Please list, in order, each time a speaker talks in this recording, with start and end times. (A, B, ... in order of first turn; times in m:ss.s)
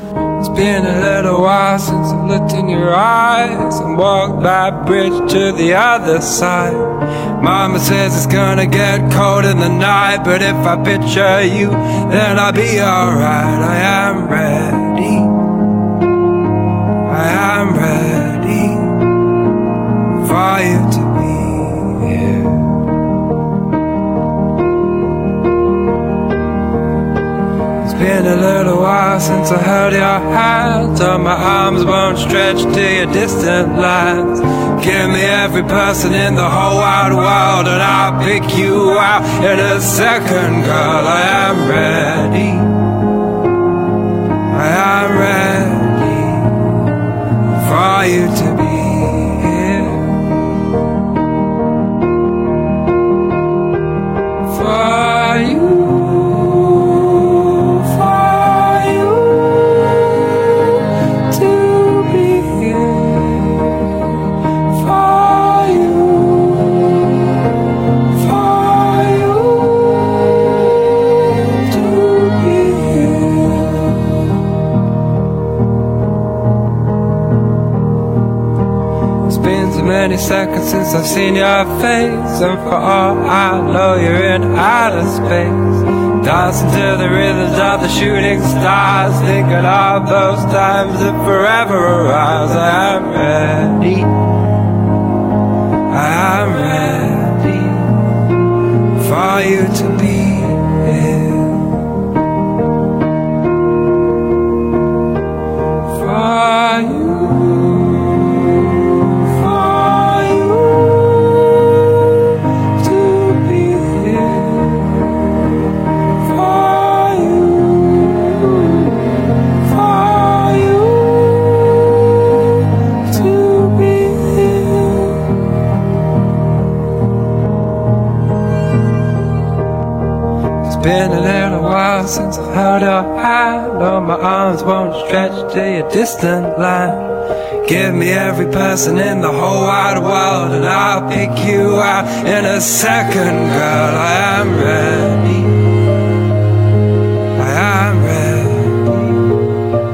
0:00.4-0:15.3 A
0:17.1-0:19.0 A
0:20.2-0:22.8 A
0:27.8-0:42.8 A
0:44.5-0:46.6 A
0:47.6-0:50.4 A
0:54.5-1:00.7 A
1:01.3-1:04.1 A
1:04.7-1:06.8 A
1:08.1-1:10.8 A
1:11.6-1:14.1 A
1:19.3-1:34.1 A
1:35.9-1:38.0 A
1:39.0-1:41.8 A
1:45.8-1:51.9 A
1:52.8-1:55.2 A
1:56.2-2:01.8 A
2:03.0-2:05.4 A
2:10.6-2:17.1 A
2:17.6-2:25.6 A
2:27.4-2:29.2 A